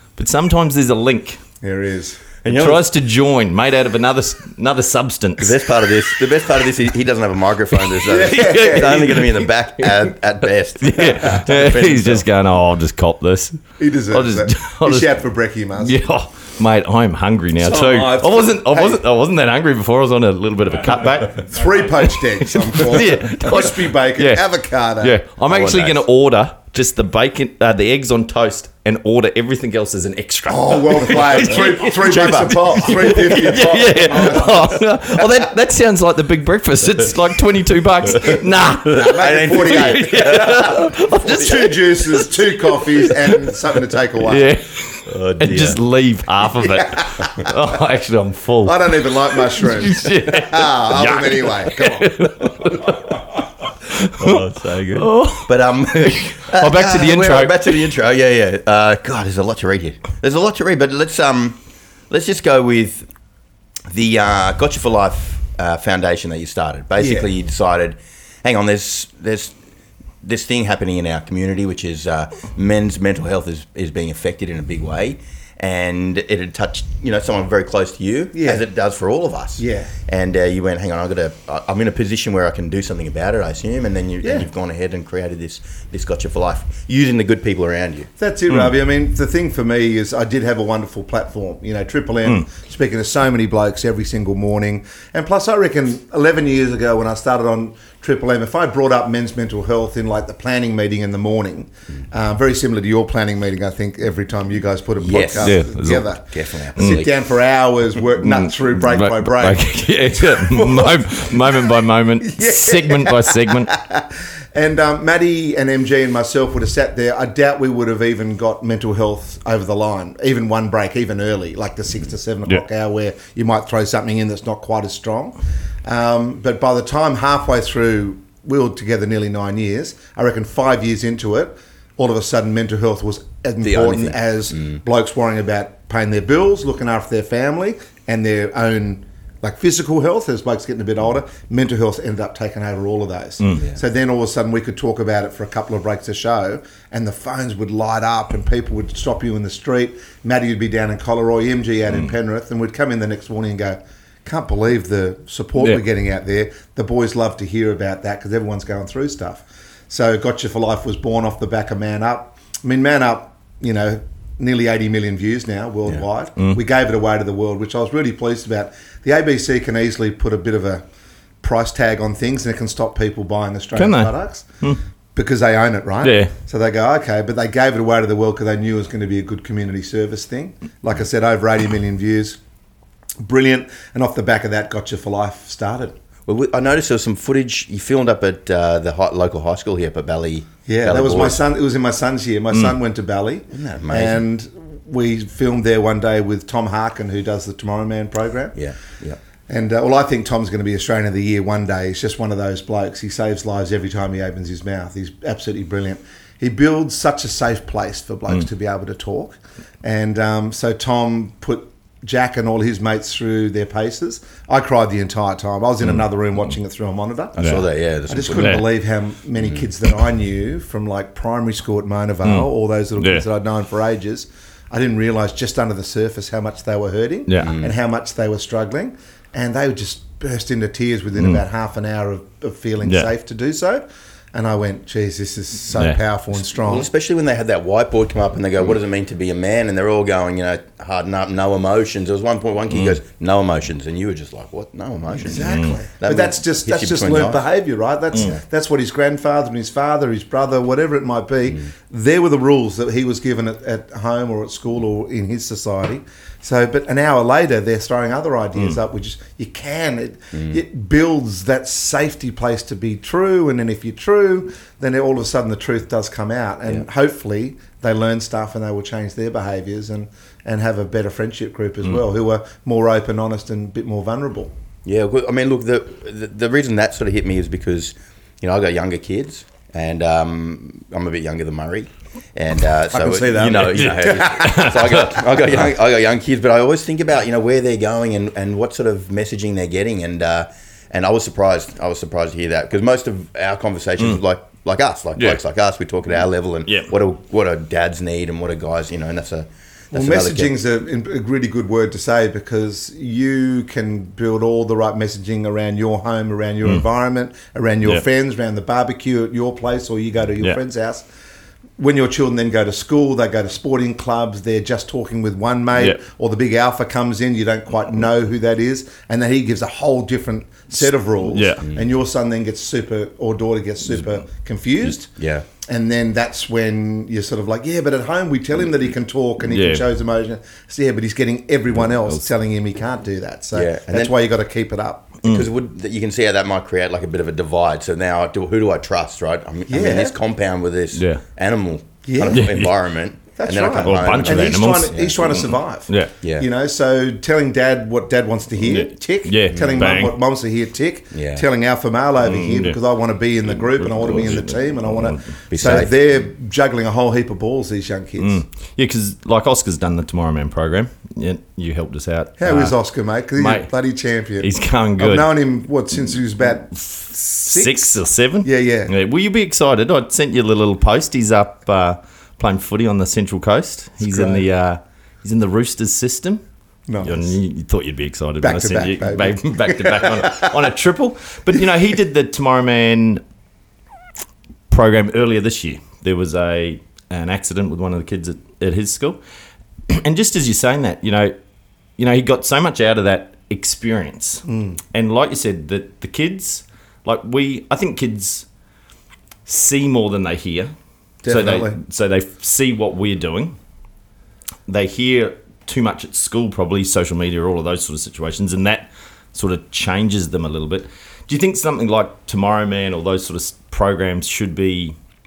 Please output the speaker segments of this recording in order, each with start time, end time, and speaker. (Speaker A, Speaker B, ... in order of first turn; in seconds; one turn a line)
Speaker A: 0.2-1.4
Speaker B: 1.6-2.2
Speaker C: 2.4-2.8
Speaker A: 2.5-6.3
Speaker C: 5.4-12.2
Speaker A: 7.7-15.1
Speaker B: 8.1-9.0
Speaker B: 13.8-16.0
Speaker A: 15.8-43.5
Speaker B: 17.6-19.0
Speaker B: 21.3-25.2
Speaker C: 25.4-26.0
Speaker B: 30.5-34.8
Speaker C: 32.0-34.4
Speaker C: 38.1-40.9
Speaker B: 39.0-44.5
Speaker A: 44.2-57.8
Speaker C: 45.0-45.8
Speaker B: 46.7-47.3
Speaker B: 48.6-52.3
Speaker C: 54.2-61.6
Speaker C: 62.1-63.1
Speaker C: 63.9-69.5
Speaker B: 67.0-67.3
Speaker C: 70.2-88.1
Speaker B: 78.3-78.6
Speaker B: 79.6-79.9
Speaker B: 84.2-84.5
Speaker B: 88.2-170.8
Speaker C: 105.0-105.8
Speaker A: 105.4-106.1
Speaker C: 106.3-107.1
Speaker A: 108.2-113.7
Speaker C: 133.6-134.8
Speaker B: 171.4-174.5
Speaker A: 173.8-174.8
Speaker B: 175.1-182.4
Speaker A: 176.0-176.3
Speaker B: 183.2-186.0
Speaker C: 186.3-191.4
Speaker B: 190.7-198.6
Speaker C: 193.5-194.2
Speaker C: 198.5-199.2
Speaker B: 199.5-217.6
Speaker C: 217.4-218.6
Speaker A: 217.4-217.6
Speaker B: 218.1-236.9
Speaker A: 218.3-218.7
Speaker A: 222.2-223.2
Speaker A: 227.3-227.5
Speaker C: 227.4-227.7
Speaker A: 232.8-233.1
Speaker C: 236.5-247.4
Speaker B: 245.2-274.5
Speaker A: 245.4-245.8
Speaker C: 248.1-248.4
Speaker C: 260.3-260.6
Speaker C: 274.8-300.6
Speaker B: 282.9-284.7
Speaker A: 283.3-285.5
Speaker A: 296.6-296.9
Speaker B: 299.9-311.1
Speaker B: 311.8-325.1
Speaker A: 321.3-321.6
Speaker C: 325.2-325.5
Speaker B: 325.6-335.2
Speaker A: 329.5-329.8
Speaker C: 333.5-334.1
Speaker C: 335.2-345.1
Speaker B: 339.7-340.1
Speaker A: 340.9-341.2
Speaker B: 342.1-342.4
Speaker A: 342.3-342.7
Speaker B: 343.4-358.4
Speaker A: 343.8-346.1
Speaker C: 346.2-346.5
Speaker A: 348.6-350.1
Speaker C: 349.5-349.9
Speaker C: 351.1-351.4
Speaker A: 352.2-352.8
Speaker A: 353.5-355.4
Speaker C: 355.5-355.9
Speaker A: 358.2-362.8
Speaker B: 362.4-368.9
Speaker A: 363.4-363.7
Speaker A: 364.4-365.3
Speaker A: 366.8-376.4
Speaker B: 374.0-374.4
Speaker B: 376.9-377.4
Speaker A: 377.0-383.2
Speaker B: 378.4-380.7
Speaker A: 384.7-389.2
Speaker A: 389.9-391.3
Speaker A: 392.0-398.4
Speaker B: 394.5-394.8
Speaker A: 399.4-400.7
Speaker B: 401.2-401.8
Speaker A: 401.2-403.6
Speaker A: 404.7-414.9